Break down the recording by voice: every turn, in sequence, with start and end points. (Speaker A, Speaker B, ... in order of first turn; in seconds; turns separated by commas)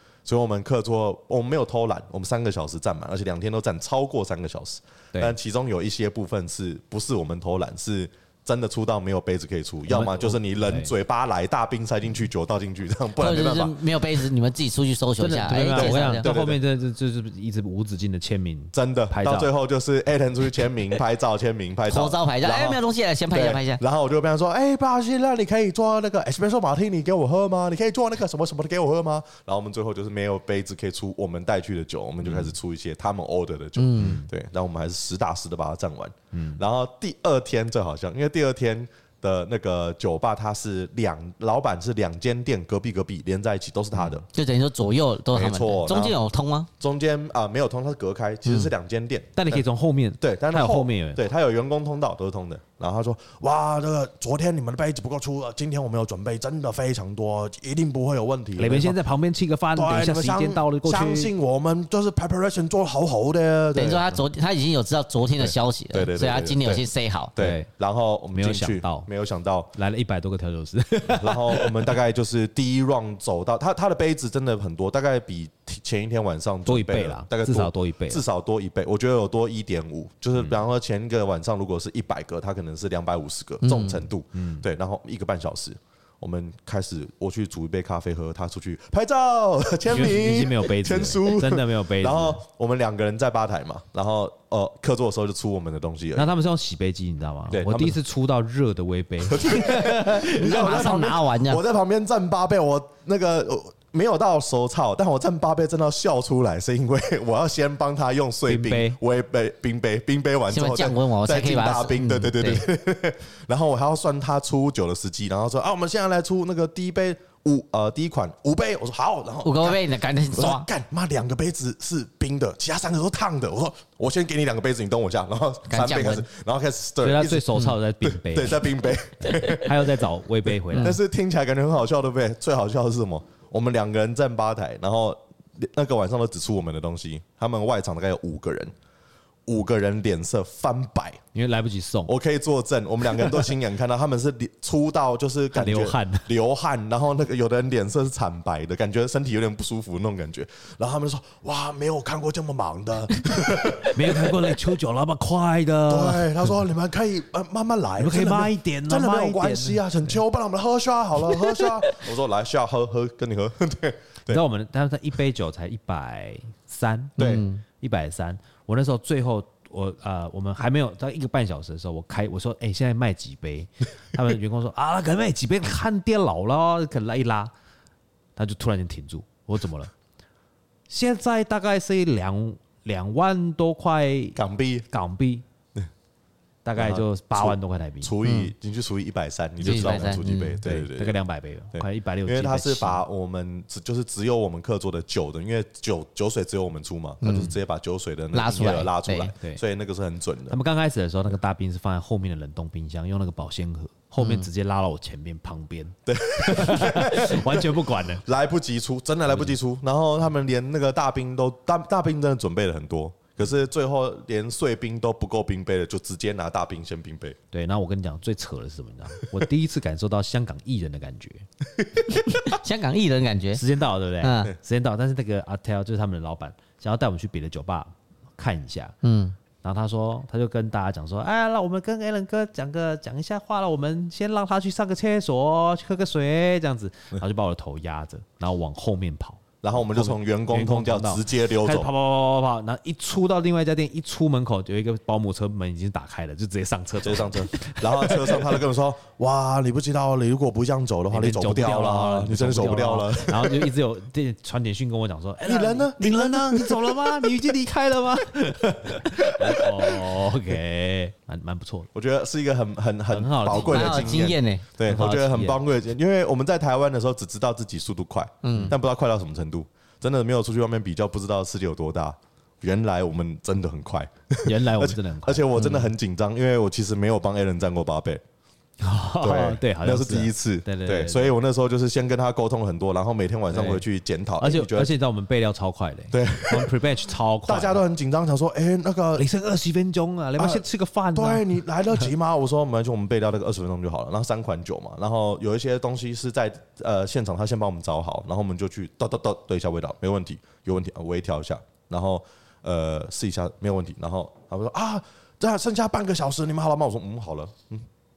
Speaker A: 0.2-14.2, Speaker B: 9.9-10.9, Speaker C: 13.2-16.3, Speaker B: 15.2-19.5, Speaker A: 15.7-16.6, Speaker A: 18.7-44.2, Speaker C: 21.9-23.8, Speaker B: 32.2-32.5, Speaker C: 33.8-34.2, Speaker B: 34.0-34.3, Speaker B: 36.3-36.6, Speaker C: 44.3-46.7, Speaker A: 45.3-46.2, Speaker A: 46.8-49.6, Speaker C: 48.5-48.7, Speaker B: 49.4-51.2, Speaker A: 50.2-59.0, Speaker B: 58.6-61.3, Speaker A: 59.7-64.1, Speaker C: 63.7-67.3, Speaker A: 65.4-66.8, Speaker A: 67.3-69.7, Speaker B: 67.4-67.7, Speaker B: 68.3-69.1, Speaker B: 69.7-71.9, Speaker A: 71.1-96.3, Speaker B: 76.7-78.2, Speaker C: 83.6-84.1, Speaker B: 84.3-84.7, Speaker B: 89.9-92.4, Speaker B: 96.2-100.9, Speaker A: 97.5-98.0, Speaker A: 99.3-130.0, Speaker C: 100.1-101.6, Speaker B: 108.5-109.0, Speaker C: 110.5-112.7, Speaker C: 119.4-120.7, Speaker C: 125.7-126.2, Speaker B: 127.0-128.6, Speaker B: 129.2-131.0, Speaker C: 130.7-131.0, Speaker A: 130.7-138.7, Speaker A: 139.5-141.2, Speaker B: 141.3-142.1, Speaker A: 142.1-154.5, Speaker B: 145.5-146.3, Speaker B: 153.8-156.5, Speaker A: 155.9-164.4, Speaker B: 158.0-160.2, Speaker B: 164.3-167.2, Speaker A: 167.2-167.4, Speaker C: 167.2-167.6, Speaker B: 167.8-177.5, Speaker B: 178.3-179.9, Speaker B: 180.9-184.4, Speaker A: 184.3-184.9, Speaker B: 184.9-185.4, Speaker B: 186.6-188.1, Speaker A: 186.8-191.2, Speaker C: 188.2-188.5, Speaker C: 189.6-190.6, Speaker B: 189.6-193.0, Speaker A: 191.7-200.6, Speaker C: 197.2-197.6, Speaker C: 198.3-199.3, Speaker B: 200.5-208.2, Speaker C: 204.2-204.5, Speaker A: 206.1-217.4, Speaker B: 217.5-221.5, Speaker C: 222.1-223.6, Speaker B: 223.5-228.9, Speaker C: 224.2-224.5, Speaker C: 229.0-229.3, Speaker B: 229.6-248.6, Speaker A: 239.6-241.9, Speaker A: 247.0-253.7, Speaker B: 251.1-261.9, Speaker A: 255.4-257.5, Speaker A: 259.2-260.0, Speaker A: 261.9-278.2, Speaker B: 263.1-264.3, Speaker C: 263.5-264.6, Speaker B: 264.8-265.6, Speaker C: 268.4-268.7, Speaker B: 274.4-275.5, Speaker C: 275.5-275.9, Speaker B: 278.8-281.3, Speaker A: 279.2-284.9, Speaker B: 283.5-283.8, Speaker B: 284.4-287.8, Speaker A: 286.1-286.8, Speaker A: 287.5-289.2, Speaker B: 289.1-291.4, Speaker A: 290.4-307.9